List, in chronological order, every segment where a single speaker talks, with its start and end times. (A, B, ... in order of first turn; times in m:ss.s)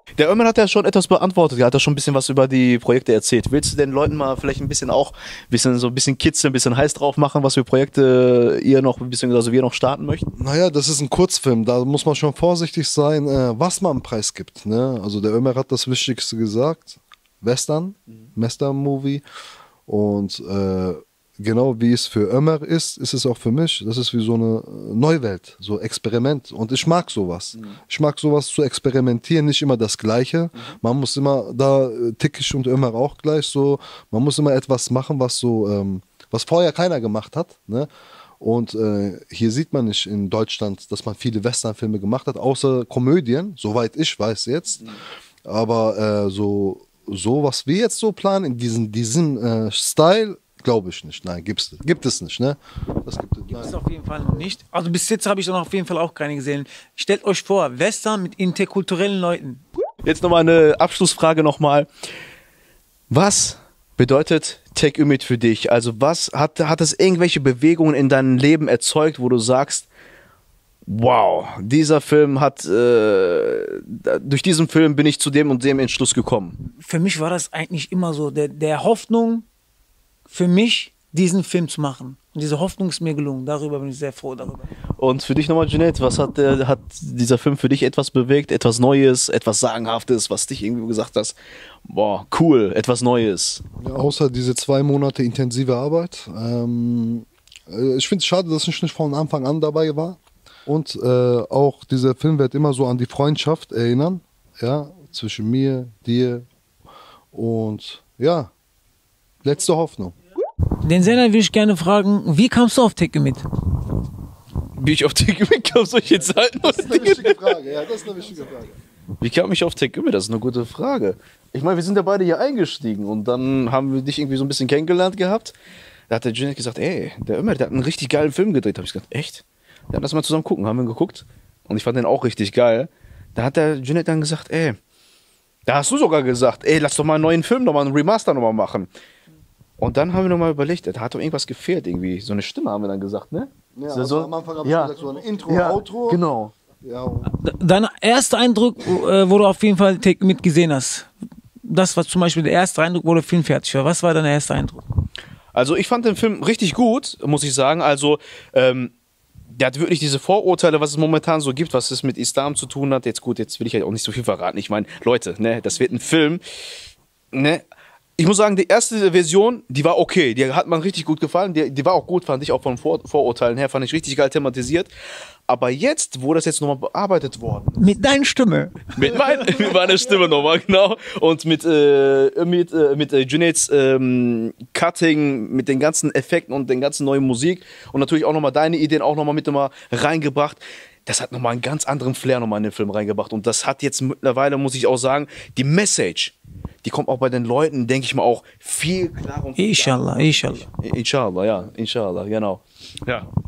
0:00.2-0:10.3 A
0:10.4-0:19.2 B
0:19.9-0:37.9 B
0:38.4-0:53.8 B
0:53.5-0:59.6 C
1:00.0-1:01.9 A
1:03.1-1:09.9 A
1:10.8-1:16.6 A
1:16.8-1:19.4 C
1:20.3-1:24.7 C
1:25.0-1:33.6 A
1:33.8-1:46.5 B
1:47.3-1:48.5 B
1:49.4-1:50.1 B
1:50.8-1:53.4 C
1:54.8-1:57.5 A
1:56.6-1:58.7 B
1:59.2-2:05.5 A
2:06.1-2:14.8 A
2:15.6-2:18.9 A
2:19.8-2:26.5 A
2:23.7-2:26.2 B
2:26.8-2:27.3 B
2:27.3-2:31.1 C
2:31.6-2:34.8 C
2:35.5-2:38.9 A
2:39.5-2:46.4 A
2:47.3-2:47.6 A
2:48.2-2:54.9 A
2:55.5-2:57.8 A
2:57.8-2:58.9 C
2:58.9-3:23.3 A
3:19.6-3:20.7 C